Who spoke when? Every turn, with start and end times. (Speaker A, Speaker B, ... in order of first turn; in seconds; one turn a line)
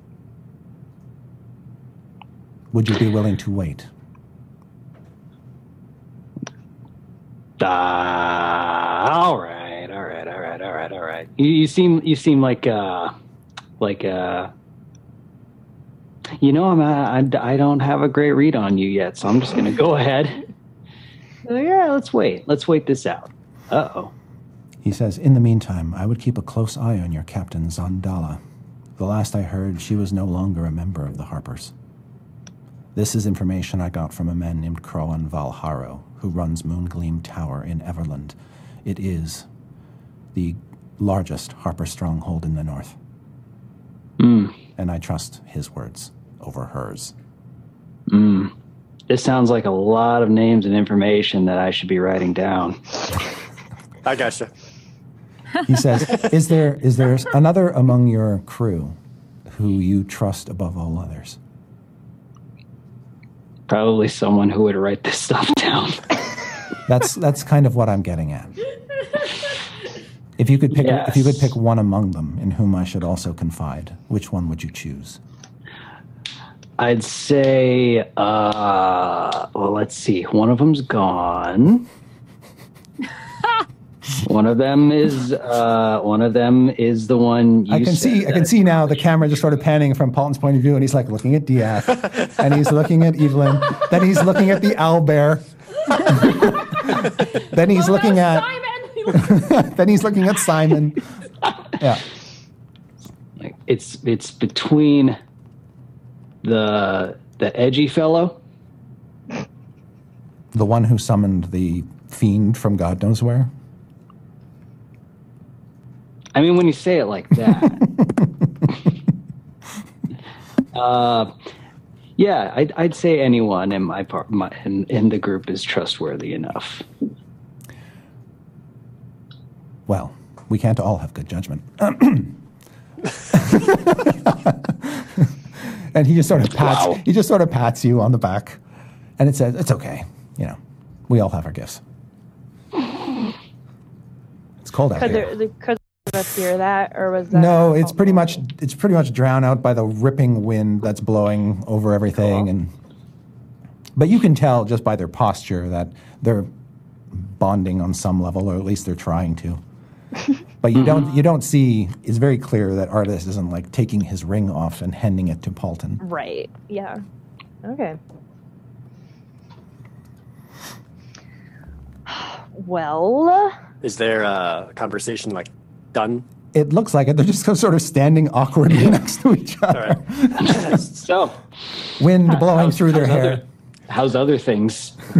Speaker A: 2.7-3.9
Speaker B: 7.6-13.1
Speaker B: 13.8-14.5
Speaker B: 16.4-20.4
Speaker B: 21.4-24.1
Speaker A: 24.8-28.4
Speaker A: 29.0-31.7
Speaker A: 32.9-39.5
Speaker A: 40.3-43.0
Speaker B: 44.2-44.5
Speaker A: 44.8-47.1
Speaker B: 48.1-48.5
Speaker B: 49.1-53.0
Speaker C: 54.0-54.5
Speaker A: 55.6-59.0
Speaker A: 59.5-61.4
Speaker B: 63.7-66.2
Speaker A: 66.8-68.6
Speaker A: 70.4-75.2
Speaker B: 70.7-71.5
Speaker B: 76.8-81.9
Speaker B: 84.2-88.5
Speaker A: 87.7-98.5
Speaker A: 99.1-101.0
Speaker A: 101.8-102.0
Speaker B: 103.4-105.2
Speaker B: 106.4-108.4
Speaker A: 110.5-113.5
Speaker B: 116.3-117.9
Speaker B: 120.7-121.3
Speaker B: 122.2-126.8
Speaker A: 129.9-132.4
Speaker A: 133.3-138.6
Speaker B: 136.7-137.0
Speaker A: 139.2-141.8
Speaker A: 144.6-145.3
Speaker D: 145.0-148.4
Speaker A: 147.3-152.7
Speaker A: 153.9-156.5
Speaker A: 157.1-159.6
Speaker A: 160.6-166.0
Speaker B: 160.7-161.1
Speaker D: 166.0-167.0
Speaker D: 167.6-168.0
Speaker D: 172.1-173.6
Speaker C: 173.8-176.2
Speaker A: 176.5-180.8
Speaker C: 179.7-180.0
Speaker B: 180.4-181.4
Speaker A: 182.0-183.4
Speaker B: 182.3-185.0